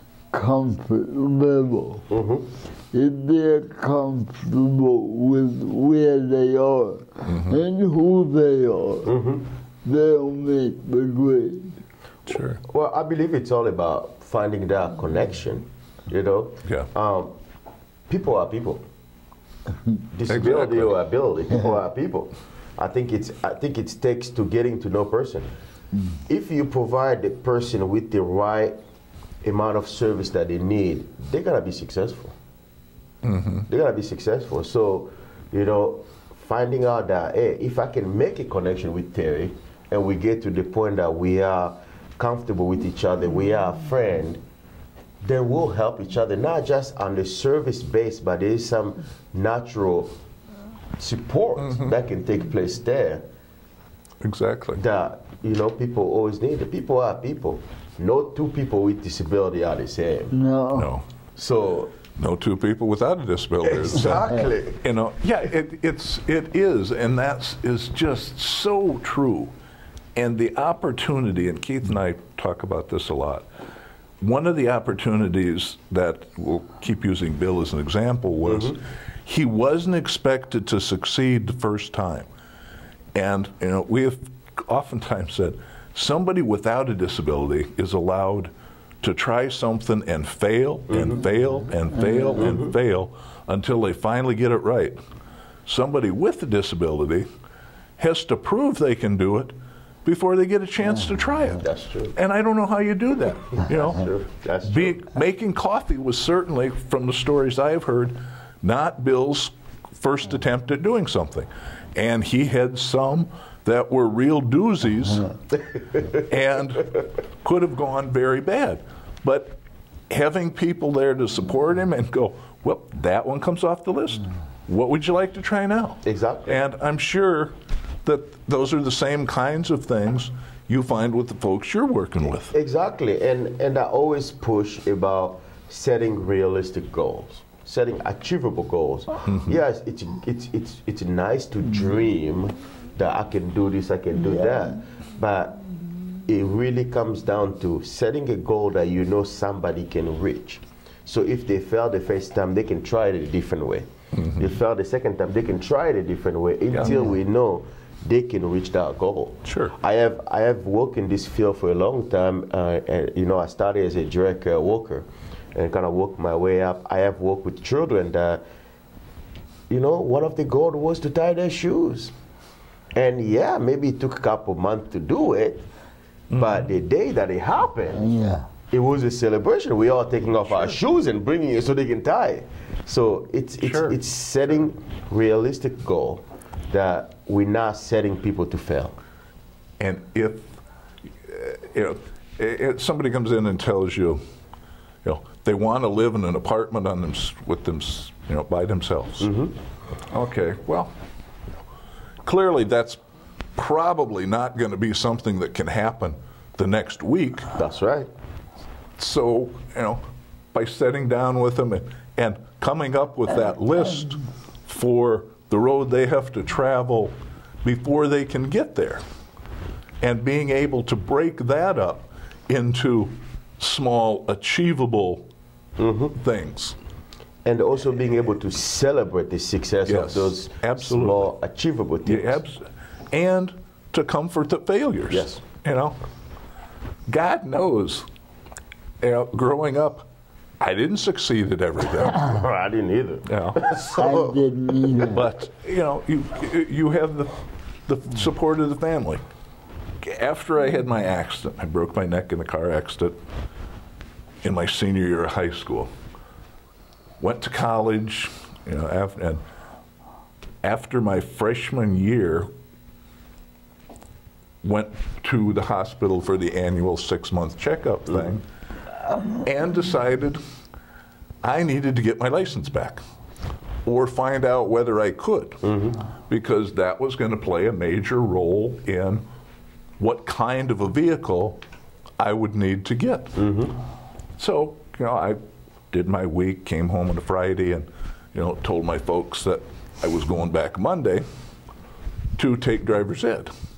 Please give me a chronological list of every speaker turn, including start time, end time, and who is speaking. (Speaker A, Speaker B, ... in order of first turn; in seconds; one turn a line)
Speaker A: 0.3-2.0
Speaker B: 2.1-2.5
Speaker A: 2.9-9.1
Speaker C: 7.3-7.6
Speaker B: 9.0-9.4
Speaker A: 9.8-11.8
Speaker C: 12.3-12.6
Speaker B: 12.6-17.3
Speaker B: 18.1-18.8
Speaker B: 20.1-25.5
Speaker C: 20.3-20.9
Speaker B: 26.3-28.8
Speaker B: 29.4-32.3
Speaker C: 33.2-33.6
Speaker B: 33.7-44.4
Speaker B: 45.2-50.1
Speaker B: 51.0-53.2
Speaker C: 54.2-54.8
Speaker B: 54.8-60.3
Speaker A: 60.3-60.9
Speaker C: 60.7-61.0
Speaker B: 61.4-61.9
Speaker C: 62.1-64.3
Speaker B: 63.6-64.8
Speaker C: 64.8-69.5
Speaker C: 70.1-73.5
Speaker C: 74.2-82.3
Speaker B: 78.5-78.8
Speaker C: 83.1-95.0
Speaker B: 90.9-91.2
Speaker A: 92.0-92.5
Speaker B: 92.4-92.7
Speaker C: 95.7-97.3
Speaker C: 98.0-104.1
Speaker B: 101.6-102.1
Speaker B: 103.6-105.0
Speaker C: 104.6-115.4
Speaker C: 116.1-119.6
Speaker C: 120.1-127.5
Speaker B: 126.0-126.6
Speaker C: 128.0-132.5
Speaker B: 132.5-145.6
Speaker B: 146.2-168.4
Speaker C: 154.2-154.5
Speaker C: 159.4-159.7
Speaker B: 169.7-172.1
Speaker B: 172.9-175.6
Speaker C: 176.3-176.7
Speaker B: 176.3-178.1
Speaker A: 177.9-178.5
Speaker B: 178.7-188.9
Speaker C: 183.6-184.0
Speaker C: 189.8-190.5
Speaker C: 191.2-194.2
Speaker C: 195.0-199.3
Speaker B: 199.2-199.5
Speaker C: 200.1-200.9
Speaker C: 202.2-203.0
Speaker C: 203.6-207.5
Speaker B: 207.5-208.1
Speaker C: 209.0-219.0
Speaker C: 220.0-225.3
Speaker B: 225.8-226.2
Speaker C: 226.2-226.8
Speaker B: 227.4-232.4
Speaker C: 229.9-231.3
Speaker C: 232.1-236.0
Speaker B: 235.1-235.4
Speaker C: 237.1-238.1
Speaker C: 239.0-240.1
Speaker C: 240.6-242.4
Speaker B: 242.1-244.4
Speaker C: 243.2-243.6
Speaker A: 243.9-245.3
Speaker C: 245.1-249.2
Speaker C: 250.0-253.2
Speaker C: 254.4-255.9
Speaker C: 257.2-259.4
Speaker C: 260.6-262.5
Speaker C: 264.6-268.4
Speaker C: 269.3-270.4
Speaker C: 271.4-273.0
Speaker C: 273.8-275.6
Speaker B: 275.6-276.0
Speaker C: 276.3-279.2
Speaker C: 280.0-281.6
Speaker C: 282.2-283.4
Speaker B: 283.4-283.7
Speaker C: 284.4-285.4
Speaker C: 285.9-291.2
Speaker C: 292.4-293.5